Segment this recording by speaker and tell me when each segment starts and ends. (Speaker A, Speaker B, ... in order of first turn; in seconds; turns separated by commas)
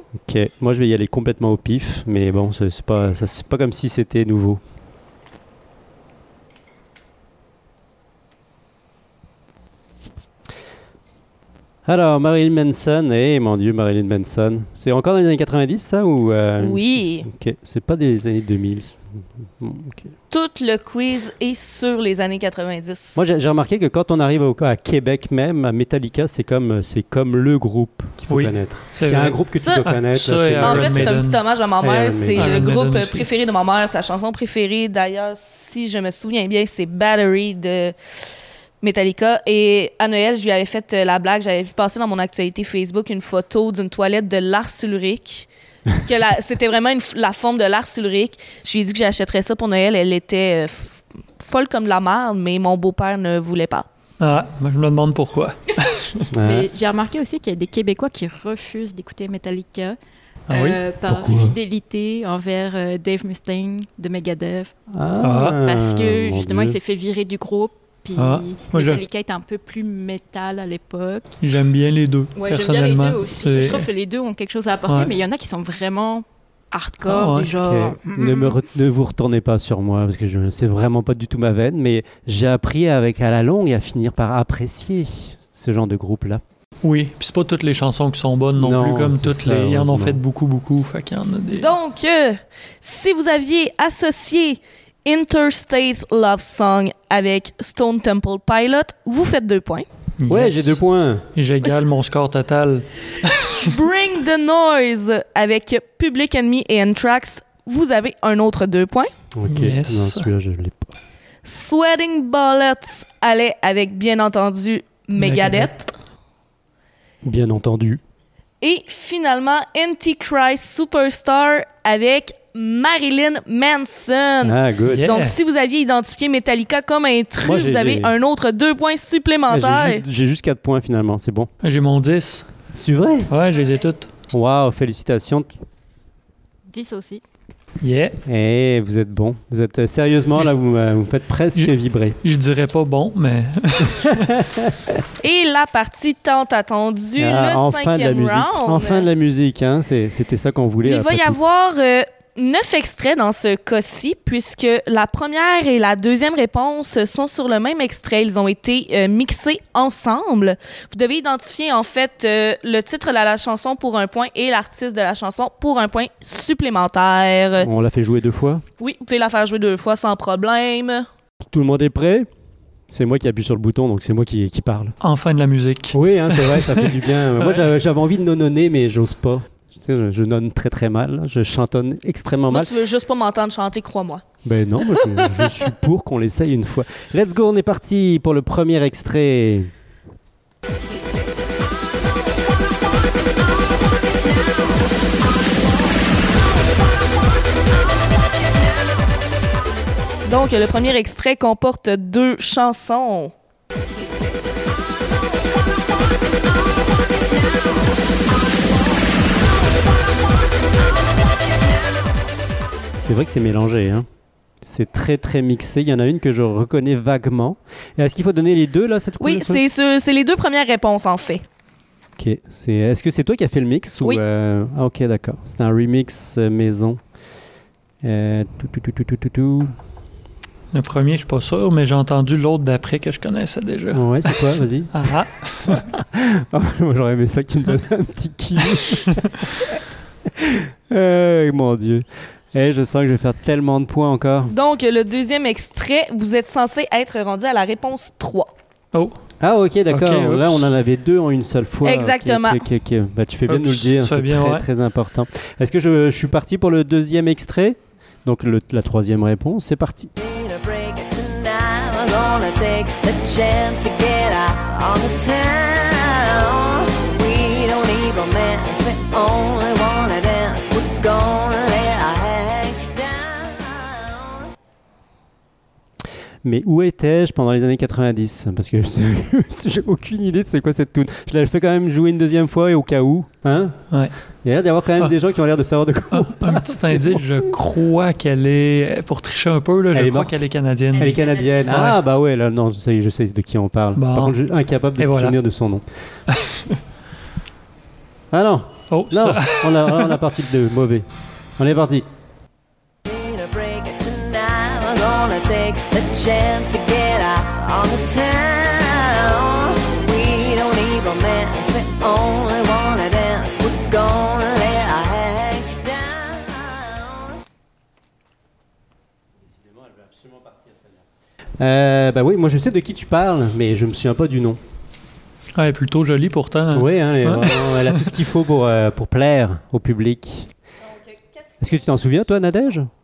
Speaker A: 0.2-4.6, Speaker A: 11.8-20.1, Speaker B: 16.6-17.3, Speaker B: 20.3-23.2, Speaker A: 23.1-31.2, Speaker C: 28.3-31.4, Speaker B: 30.6-37.9, Speaker A: 31.8-32.7, Speaker C: 32.3-33.3, Speaker B: 38.8-45.5, Speaker B: 46.0-53.9, Speaker C: 54.2-56.3, Speaker A: 56.3-56.7, Speaker D: 56.4-60.0, Speaker C: 60.5-60.8, Speaker D: 60.5-64.7, Speaker A: 61.0-61.5, Speaker A: 64.9-66.8, Speaker C: 65.2-65.6, Speaker D: 65.4-71.3, Speaker C: 68.2-69.0, Speaker C: 71.4-73.9, Speaker D: 72.3-78.6, Speaker C: 77.0-77.5, Speaker A: 77.6-86.4, Speaker C: 86.8-91.7, Speaker A: 88.6-90.2, Speaker B: 91.6-99.9, Speaker C: 100.2-100.8, Speaker A: 100.3-101.3, Speaker C: 101.3-103.7, Speaker B: 103.5-109.1, Speaker A: 109.3-110.9, Speaker C: 109.5-110.3, Speaker B: 111.4-115.9, Speaker C: 115.2-115.7, Speaker A: 117.2-118.0, Speaker B: 118.6-130.0, Speaker A: 124.4-125.1, Speaker C: 124.9-125.3, Speaker A: 127.4-128.1, Speaker A: 129.5-131.5, Speaker C: 131.6-132.5, Speaker A: 132.7-133.3, Speaker C: 133.3-134.1, Speaker A: 134.3-135.5, Speaker D: 136.7-137.2, Speaker C: 137.8-138.2, Speaker A: 138.2-142.2, Speaker C: 142.2-144.2, Speaker A: 143.9-145.0, Speaker B: 145.2-149.1, Speaker A: 147.2-151.4, Speaker B: 150.8-167.7, Speaker A: 167.6-168.6, Speaker B: 168.8-171.1, Speaker A: 171.5-172.3, Speaker A: 172.9-174.9, Speaker C: 175.0-177.7, Speaker A: 175.9-182.7, Speaker B: 182.5-184.2, Speaker A: 184.4-189.7, Speaker E: 193.9-194.4, Speaker B: 200.2-203.3, Speaker E: 207.1-207.9, Speaker A: 213.0-214.1, Speaker A: 214.6-219.6, Speaker B: 219.2-221.4, Speaker A: 222.2-227.0, Speaker A: 228.0-229.7, Speaker C: 230.7-235.8, Speaker A: 233.9-235.1, Speaker A: 235.7-239.7, Speaker A: 240.2-244.5, Speaker B: 244.5-248.5, Speaker A: 249.4-260.1, Speaker C: 249.9-250.7, Speaker B: 251.8-252.6, Speaker C: 253.5-254.7, Speaker E: 260.2-274.5, Speaker A: 276.4-283.8, Speaker A: 284.4-287.2, Speaker C: 286.1-292.0, Speaker A: 289.9-290.4, Speaker A: 290.9-295.9, Speaker C: 293.9-294.4, Speaker C: 295.0-295.4, Speaker C: 296.3-296.8, Speaker A: 298.3-301.1, Speaker C: 298.9-300.2, Speaker A: 301.6-302.1, Speaker E: 303.0-317.4, Speaker A: 319.6-320.9, Speaker A: 321.6-324.6, Speaker C: 325.6-328.1, Speaker A: 326.7-330.5, Speaker B: 330.9-331.7, Speaker A: 331.6-332.9